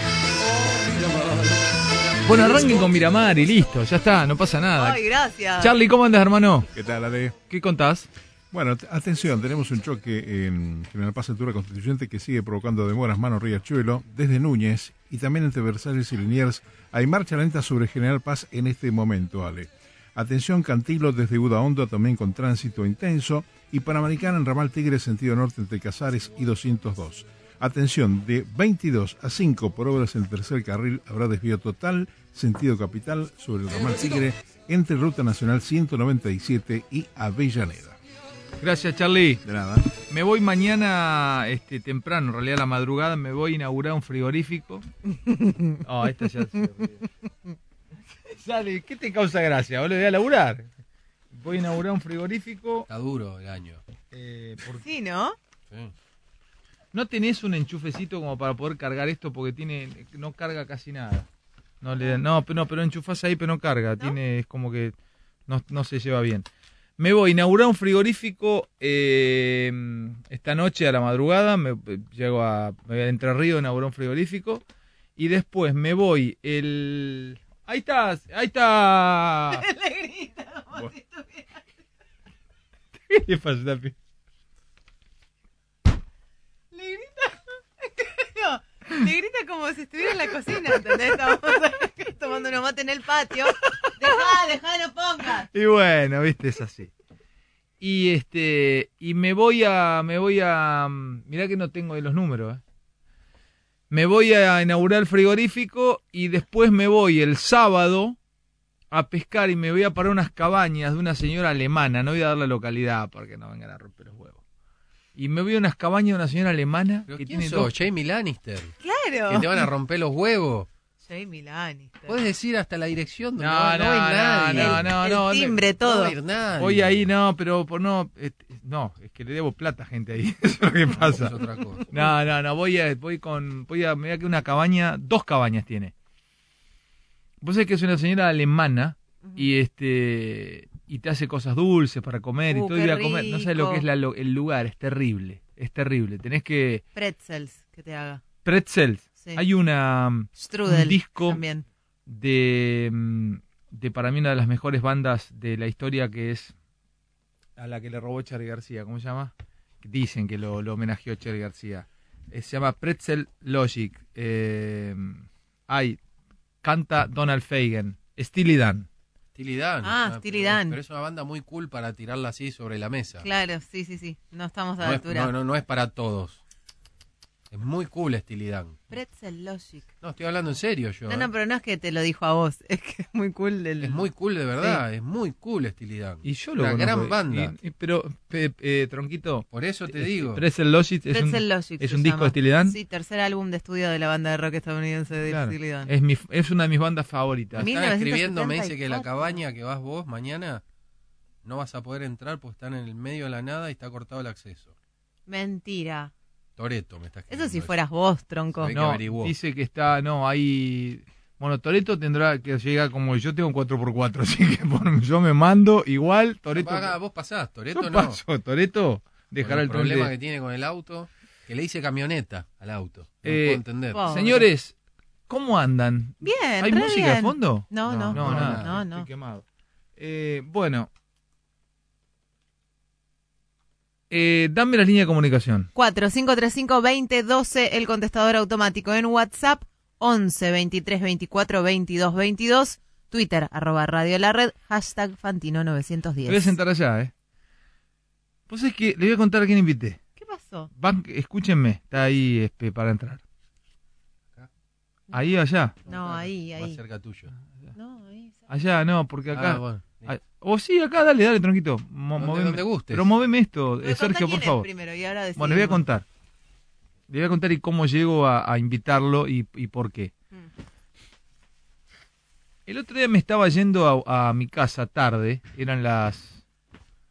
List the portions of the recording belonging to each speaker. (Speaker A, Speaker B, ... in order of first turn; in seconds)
Speaker A: 2.2-5.0, 5.6-6.7, 7.5-8.1, 38.6-39.4, 40.0-44.8, 45.8-47.0, 48.3-50.7, 51.3-52.9, 54.1-54.9, 56.9-61.3, 61.8-64.9, 65.5-66.5, 67.0-74.6, 75.2-79.6, 83.1-83.9, 95.5-96.9, 97.8-102.6, 103.9-108.2, 108.9-114.4, 115.2-117.7, 123.4-125.6, 126.6-131.4, 131.9-135.9, 137.4-146.8, 148.4-151.4, 152.1-156.5, 157.6-166.0, 166.6-168.9, 186.2-192.8, 195.3-197.7, 208.7-216.9, 217.7-220.1, 223.2-224.7, 225.3-229.4, 230.0-230.9, 234.1-235.7, 246.2-247.1, 248.5-250.0, 250.8-253.2, 255.1-255.7, 258.5-264.7, 265.4-266.0, 267.1-270.1, 272.7-276.4
Speaker B: 4.8-5.8, 45.4-45.7, 54.8-55.4, 79.5-81.5, 86.7-95.5, 118.8-119.7, 121.0-122.2, 124.4-126.2, 142.5-143.8, 146.9-148.2, 150.3-151.6, 169.8-170.8, 173.2-175.3, 178.9-179.8, 181.1-184.0, 191.1-195.9, 197.6-199.4, 205.3-206.1, 207.3-208.7, 223.9-224.5, 226.2-229.1, 235.7-246.6, 250.2-250.7, 255.8-256.8, 257.8-258.5, 263.8-265.8
Speaker C: 6.7-7.3, 8.5-38.0, 39.5-39.9
Speaker D: 52.9-53.8, 117.1-118.7, 119.3-120.7, 122.1-124.9, 125.8-127.0, 131.0-131.8, 169.3-173.2, 174.8-176.4, 177.5-178.8, 180.0-181.3, 183.8-187.5, 189.5-190.4, 197.6-200.6, 201.4-204.7, 206.6-207.7, 208.5-209.3, 216.5-218.2, 219.4-224.3, 227.8-228.8, 255.9-257.3, 259.3-260.1, 262.2-263.1